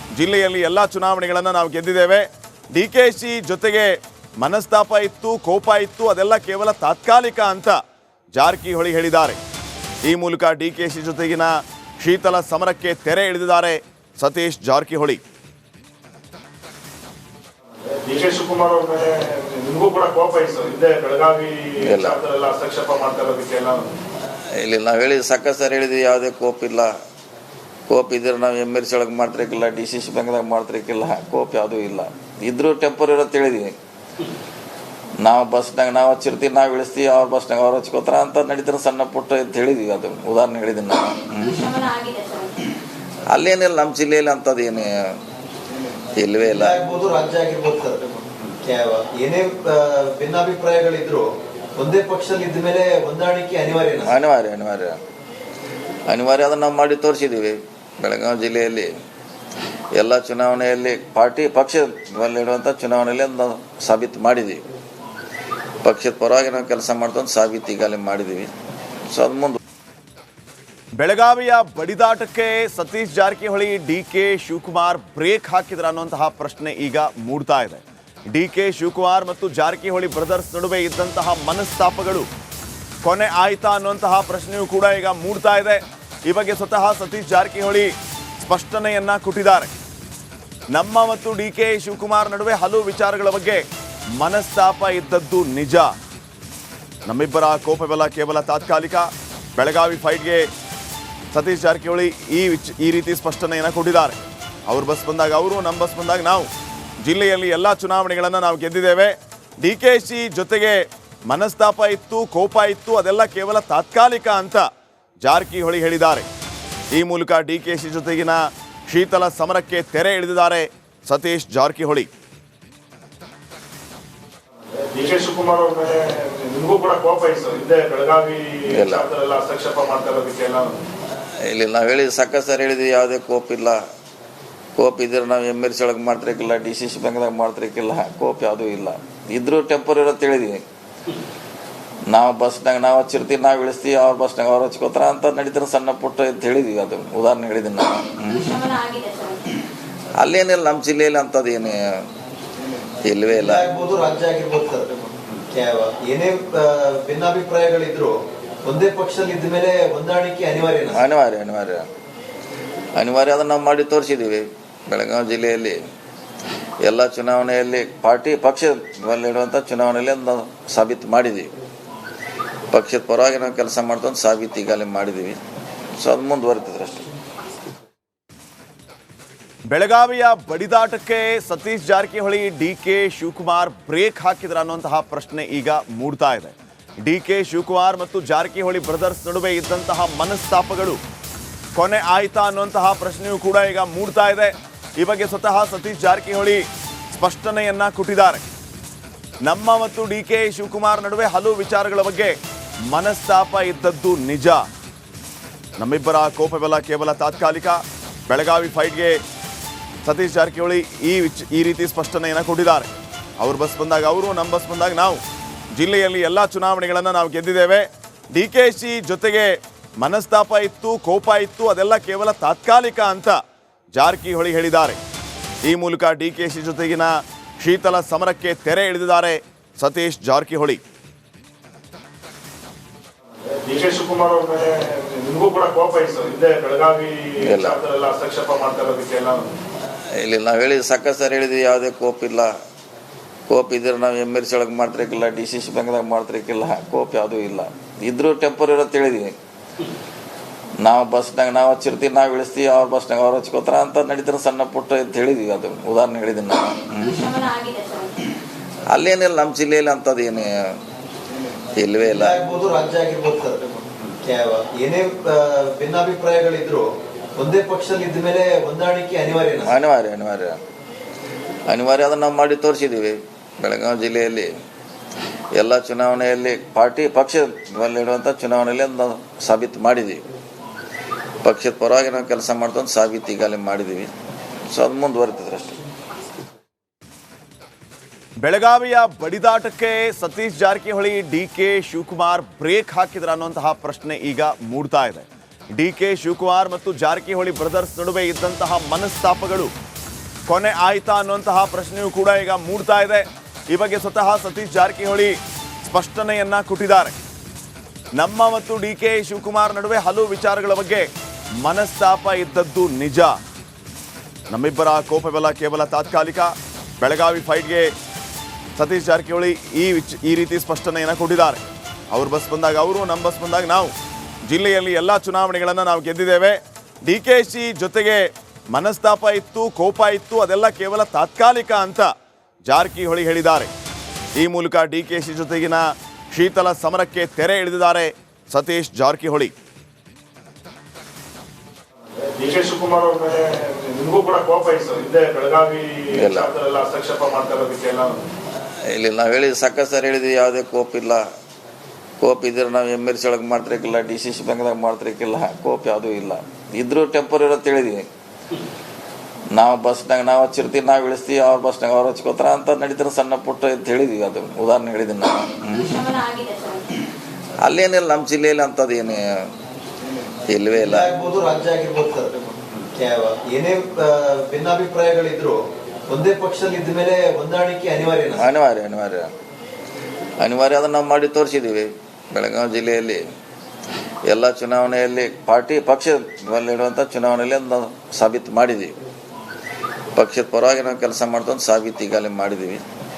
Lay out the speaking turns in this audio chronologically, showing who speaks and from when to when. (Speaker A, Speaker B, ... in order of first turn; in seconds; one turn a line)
Speaker A: 0.1-7.8
Speaker A: 8.3-9.4
Speaker A: 10.1-15.2
Speaker B: 17.8-23.9
Speaker C: 21.8-22.2
Speaker C: 24.6-26.9
Speaker C: 27.9-33.8
Speaker C: 35.2-41.7
Speaker D: 41.5-42.6
Speaker C: 43.3-45.2
Speaker C: 46.2-46.8
Speaker E: 46.5-51.3
Speaker E: 51.8-54.1
Speaker C: 54.0-55.0
Speaker C: 56.1-58.9
Speaker C: 60.0-64.7
Speaker C: 65.8-68.5
Speaker C: 69.1-69.6
Speaker A: 71.0-82.3
Speaker A: 83.0-89.7
Speaker A: 90.7-93.7
Speaker A: 94.2-96.0
Speaker A: 97.0-100.5
Speaker A: 101.3-106.5
Speaker A: 107.0-114.7
Speaker A: 115.2-116.3
Speaker A: 116.9-122.1
Speaker B: 124.6-130.8
Speaker C: 128.7-129.1
Speaker C: 131.4-133.8
Speaker C: 134.8-140.6
Speaker C: 142.1-148.5
Speaker D: 148.4-149.5
Speaker C: 150.2-152.1
Speaker C: 153.1-153.7
Speaker E: 153.3-158.1
Speaker E: 158.7-161.0
Speaker C: 160.9-161.9
Speaker C: 163.0-165.8
Speaker C: 166.8-171.6
Speaker C: 172.7-175.4
Speaker C: 176.0-177.1
Speaker A: 179.7-191.0
Speaker A: 191.8-198.4
Speaker A: 199.4-202.3
Speaker A: 202.9-204.7
Speaker A: 205.8-209.2
Speaker A: 210.0-215.2
Speaker A: 215.7-223.4
Speaker A: 223.9-225.0
Speaker A: 225.7-230.8
Speaker B: 233.4-239.5
Speaker C: 237.4-237.8
Speaker C: 240.2-242.5
Speaker C: 243.5-249.3
Speaker C: 250.8-257.3
Speaker D: 257.0-258.2
Speaker C: 258.9-260.8
Speaker C: 261.8-262.4
Speaker E: 262.1-266.9
Speaker E: 267.4-269.7
Speaker C: 269.6-270.6
Speaker C: 271.7-274.5
Speaker C: 275.6-280.3
Speaker C: 281.4-284.1
Speaker C: 284.7-285.8
Speaker A: 288.4-299.7
Speaker A: 300.5-307.1
Speaker A: 308.2-311.1
Speaker A: 311.6-313.4
Speaker A: 314.5-317.9
Speaker A: 318.8-323.9
Speaker A: 324.5-332.1
Speaker A: 332.7-333.7
Speaker A: 334.4-339.5
Speaker B: 342.0-348.2
Speaker C: 346.1-346.5
Speaker C: 348.9-351.2
Speaker C: 352.2-358.1
Speaker C: 359.6-365.9
Speaker D: 365.8-366.9
Speaker C: 367.6-369.5
Speaker C: 370.5-371.1
Speaker E: 370.8-375.6
Speaker E: 376.1-378.4
Speaker C: 378.3-379.3
Speaker C: 380.4-383.2
Speaker C: 384.3-389.0
Speaker C: 390.1-392.8